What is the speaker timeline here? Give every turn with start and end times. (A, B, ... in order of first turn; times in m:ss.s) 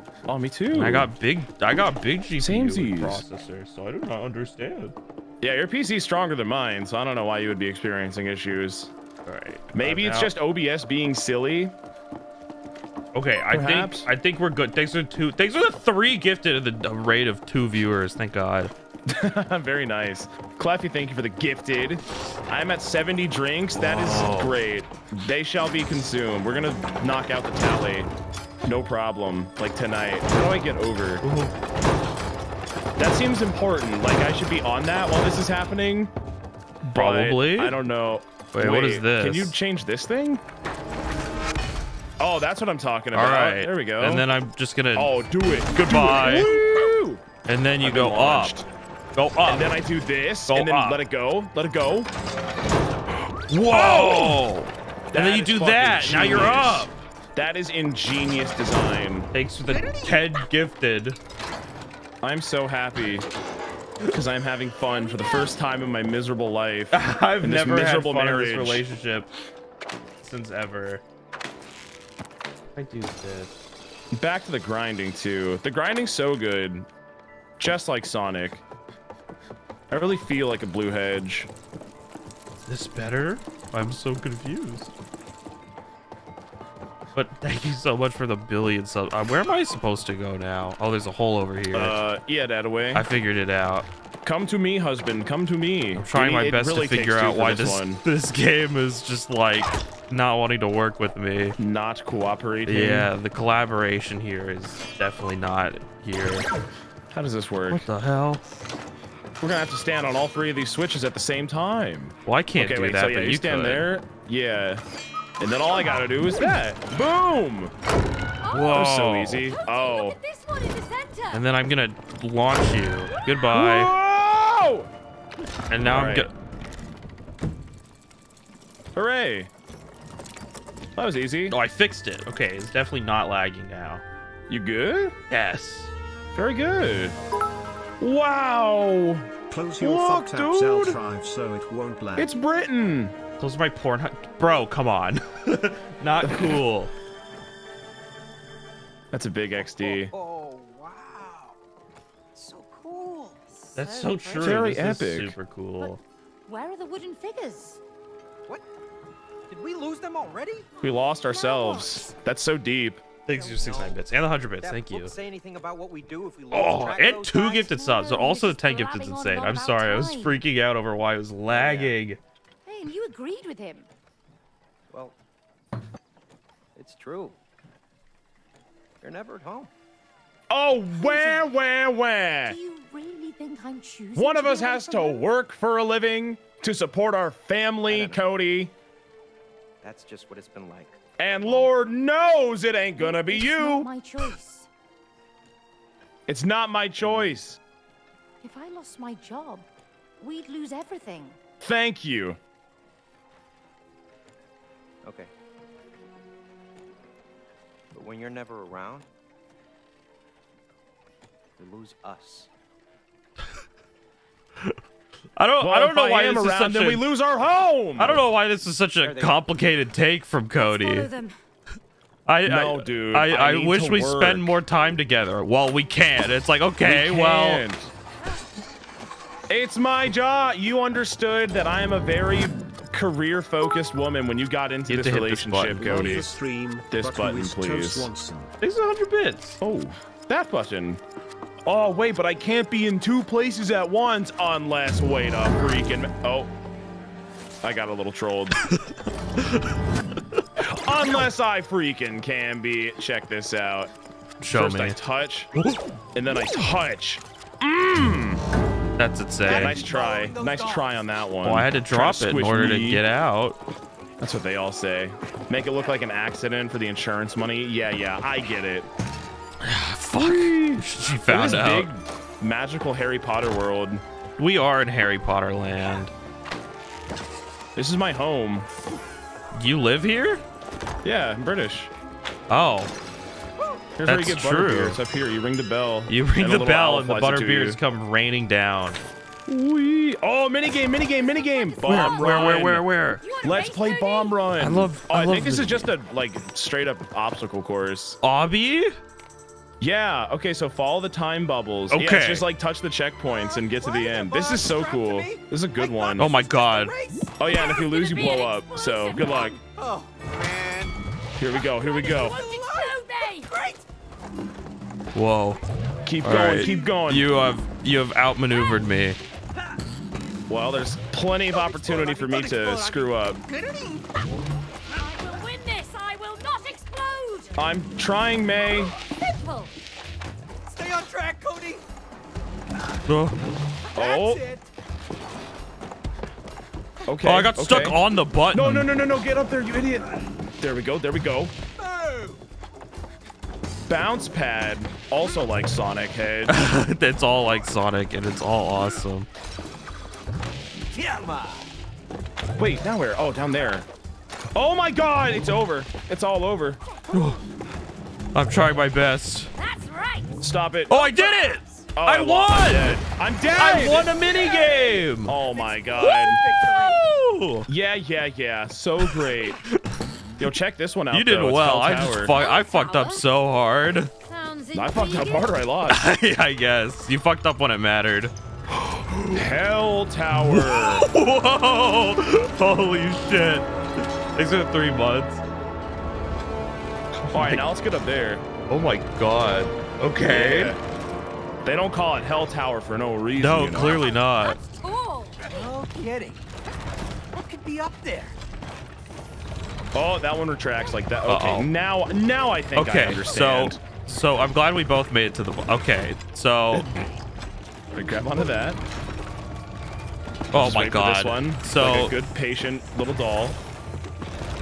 0:00.3-0:01.1 A
0:00.7-0:05.0 B
0:02.4-0:03.2 A
0:05.4-0:08.9 A
0:09.2-0:10.3 B
0:09.7-0:11.7 A
0:13.1-0:18.7 B
0:13.5-0:14.1 A
0:19.1-0:28.1 A
0:23.8-0:24.6 B
0:28.6-0:31.2 A
0:31.2-0:31.5 B
0:33.0-0:36.1 A
0:36.8-0:40.4 A
0:36.9-0:37.8 B
0:38.5-0:39.6 B
0:42.2-0:44.3 A
0:43.1-0:45.1 B
0:44.9-0:47.2 A
0:45.7-0:46.6 B
0:47.4-0:48.6 B
0:47.8-0:48.7 A
0:49.1-0:49.7 B
0:49.4-0:52.1 A
0:50.5-0:51.0 B
0:53.5-0:57.0 B
0:53.7-0:54.4 A
0:55.1-0:59.3 A
0:59.3-1:01.2 B
1:02.2-1:03.3 A
1:04.1-1:08.8 A
1:06.9-1:09.3 B
1:10.2-1:11.0 B
1:12.8-1:13.5 B
1:14.1-1:16.9 A
1:17.6-1:18.6 A
1:19.9-1:21.5 A
1:22.6-1:24.9 B
1:27.1-1:32.0 B
1:31.7-1:33.1 A
1:32.9-1:33.9 B
1:34.2-1:38.0 A
1:36.0-1:41.6 B
1:41.6-1:43.1 A
1:42.7-1:46.5 B
1:47.1-1:47.9 A
1:47.7-1:48.4 B
1:49.4-1:54.8 A
1:52.2-1:53.9 B
1:55.4-1:57.7 A
1:58.4-2:01.4 C
1:58.5-1:59.5 B
1:58.7-2:00.2 A
2:01.3-2:03.9 B
2:03.4-2:04.9 A
2:05.7-2:06.3 B
2:05.8-2:06.3 A
2:08.9-2:09.5 A
2:11.0-2:11.6 A
2:11.5-2:14.0 B
2:14.5-2:15.2 A
2:15.3-2:15.9 B
2:16.3-2:17.2 A
2:18.0-2:21.0 A
2:19.5-2:22.3 D
2:22.2-2:23.2 A
2:23.4-2:26.9 B
2:26.2-2:26.6 A
2:29.1-2:30.1 A
2:29.6-2:31.6 E
2:32.3-2:33.5 E
2:33.6-2:34.7 C
2:33.7-2:36.0 B
2:34.4-2:35.4 A
2:35.8-2:37.8 C
2:39.5-2:40.7 E
2:40.8-2:43.0 A
2:41.3-2:42.1 C
2:43.3-2:45.1 B
2:43.3-2:44.0 E
2:44.6-2:47.7 E
2:46.5-2:52.2 B
2:47.4-2:50.4 C
2:51.5-2:52.0 E
2:52.7-2:53.9 C
2:54.9-2:55.2 E
2:56.8-2:57.4 E
2:59.0-2:59.7 E
3:00.5-3:02.6 A
3:01.0-3:01.4 C
3:02.4-3:05.3 C
3:04.2-3:08.7 A
3:07.9-3:08.2 E
3:09.8-3:11.6 E
3:11.2-3:13.9 A
3:13.0-3:14.7 C
3:16.3-3:17.6 A
3:18.4-3:19.6 C
3:20.2-3:21.4 C
3:21.6-3:22.4 A
3:25.0-3:25.3 E
3:27.9-3:29.1 E
3:31.6-3:32.5 E
3:35.4-3:37.0 B
3:35.6-3:38.2 A
3:38.0-3:41.1 B
3:39.0-3:39.5 E
3:40.7-3:41.4 C
3:42.3-3:47.6 B
3:42.4-3:44.6 A
3:46.8-3:47.9 A
3:49.5-3:56.3 A
3:54.9-3:56.3 B
3:55.8-3:58.5 D
3:56.9-3:58.1 A
3:58.6-3:59.6 B
3:59.6-4:01.0 A
4:01.6-4:06.5 A
4:07.6-4:08.6 A
4:10.6-4:13.9 A
4:14.4-4:15.0 B
4:14.5-4:15.5 A
4:16.1-4:18.4 A
4:19.0-4:19.8 B
4:19.4-4:21.1 E
4:19.4-4:23.0 A
4:21.4-4:23.6 B
4:24.2-4:28.9 A
4:29.6-4:31.9 B
4:30.2-4:34.0 A
4:34.4-4:36.1 B
4:37.7-4:38.7 A
4:39.6-4:40.4 B
4:41.0-4:41.9 A
4:42.5-4:42.9 B
4:44.0-4:47.8 A
4:44.0-4:45.0 B
4:46.1-4:49.0 B
4:49.5-4:52.9 A
4:51.2-4:54.6 C
4:51.8-4:53.2 B
4:53.4-4:58.2 A
4:54.6-4:55.9 B
4:58.2-4:59.0 B
4:59.8-5:06.3 A
5:01.9-5:02.4 B
5:03.4-5:07.6 E
5:06.2-5:06.9 B
5:07.4-5:09.6 A
5:07.4-5:09.6 C
5:09.8-5:11.0 E
5:11.4-5:12.4 A
5:11.6-5:13.8 E
5:11.7-5:13.5 C
5:15.1-5:15.6 B
5:16.0-5:17.3 A
5:16.2-5:19.2 B
5:16.6-5:16.9 E
5:20.5-5:23.4 A
5:21.5-5:24.1 E
5:24.9-5:27.6 C
5:27.6-5:28.9 A
5:29.2-5:29.7 C
5:30.7-5:31.8 E
5:33.1-5:33.4 B
5:33.8-5:34.7 E
5:33.9-5:34.4 A
5:37.0-5:40.1 A
5:37.2-5:38.9 B
5:40.6-5:41.5 A
5:41.8-5:42.4 E
5:43.9-5:46.6 A
5:46.5-5:49.3 B
5:50.9-5:51.7 E
5:52.6-5:53.9 A
5:54.6-5:56.8 A
5:57.1-5:57.4 B
5:58.3-5:59.5 B
5:59.6-6:00.4 C
6:00.4-6:01.0 A
6:00.9-6:03.0 B
6:01.1-6:01.4 E
6:01.4-6:01.8 C
6:02.0-6:04.1 A
6:03.6-6:05.4 B
6:04.2-6:07.0 E
6:05.2-6:06.4 A
6:06.7-6:07.7 B
6:07.7-6:09.6 A
6:09.0-6:09.8 B
6:10.4-6:12.4 A
6:11.1-6:14.1 B
6:12.2-6:13.3 C
6:14.2-6:15.6 C
6:14.7-6:16.0 A
6:15.9-6:19.4 B
6:19.3-6:21.1 A
6:20.4-6:23.7 B
6:24.3-6:25.4 B
6:27.2-6:27.7 B
6:27.3-6:28.4 A
6:28.7-6:30.8 B
6:30.2-6:30.8 A
6:31.6-6:34.0 A
6:33.4-6:34.6 B
6:34.8-6:35.6 C
6:35.4-6:36.4 E
6:37.3-6:38.3 E
6:39.9-6:43.8 A
6:41.3-6:41.7 B
6:42.8-6:46.9 B
6:47.9-6:48.8 A
6:50.5-6:52.2 B
6:50.5-6:53.6 A